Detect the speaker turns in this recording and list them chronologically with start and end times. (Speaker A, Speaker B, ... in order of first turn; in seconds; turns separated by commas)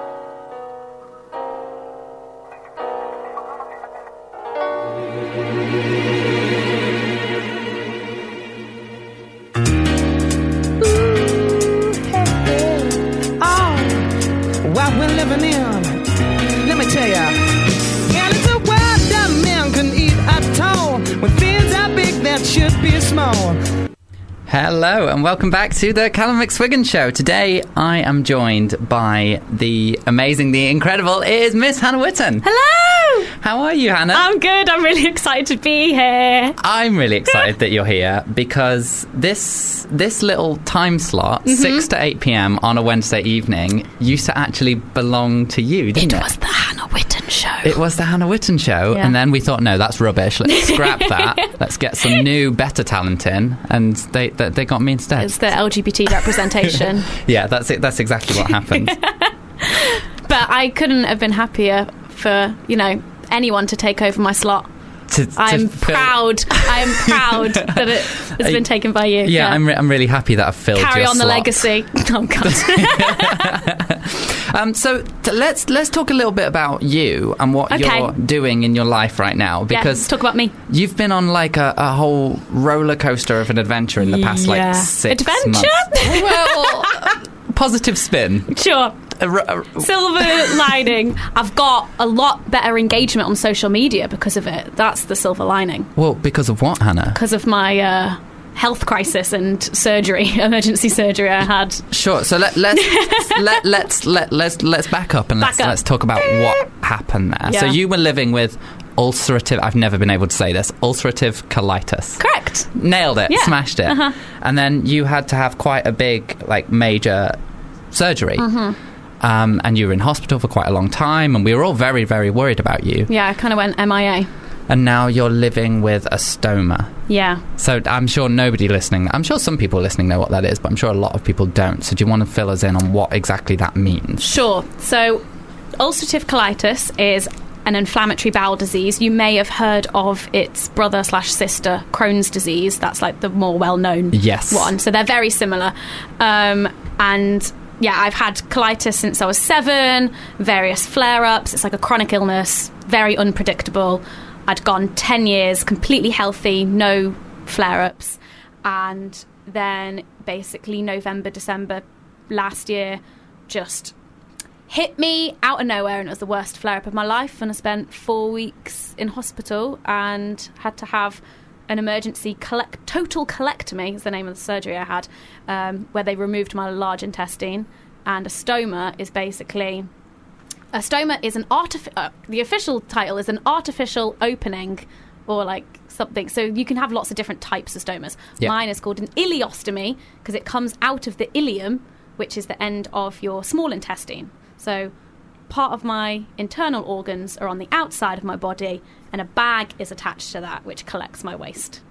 Speaker A: 10.8-14.1, Speaker A: 14.6-16.0, Speaker A: 16.6-17.4, Speaker A: 18.1-23.6, Speaker B: 24.5-32.5, Speaker C: 32.4-33.3, Speaker B: 33.4-34.3, Speaker C: 34.1-36.6, Speaker B: 36.6-46.3, Speaker C: 37.3-37.5, Speaker C: 41.5-41.9, Speaker C: 46.0-47.8, Speaker B: 47.6-55.5, Speaker C: 50.5-51.5, Speaker C: 55.2-57.1, Speaker B: 57.1-59.0, Speaker C: 58.4-64.7, Speaker B: 65.1-68.6, Speaker C: 65.4-69.6, Speaker B: 69.2-71.7, Speaker C: 70.8-73.6, Speaker B: 72.4-80.1, Speaker C: 77.7-78.1, Speaker C: 79.7-80.5, Speaker B: 80.7-88.5, Speaker C: 84.0-87.2, Speaker C: 88.5-89.0, Speaker B: 89.2-90.8, Speaker C: 89.8-95.9, Speaker B: 96.0-97.2, Speaker C: 97.1-101.9, Speaker B: 101.9-112.2, Speaker C: 102.7-103.6, Speaker C: 105.4-106.4, Speaker C: 107.5-107.8, Speaker C: 112.2-112.7, Speaker B: 112.7-117.4, Speaker C: 113.3-114.2, Speaker B: 117.9-118.5, Speaker C: 118.4-118.8, Speaker B: 119.2-123.1, Speaker C: 123.1-124.3, Speaker B: 124.7-126.9, Speaker C: 127.1-127.4, Speaker B: 127.6-134.4, Speaker C: 134.2-135.2, Speaker C: 135.8-163.9, Speaker B: 144.1-144.7, Speaker C: 164.7-179.9, Speaker C: 180.7-194.9, Speaker C: 195.5-201.8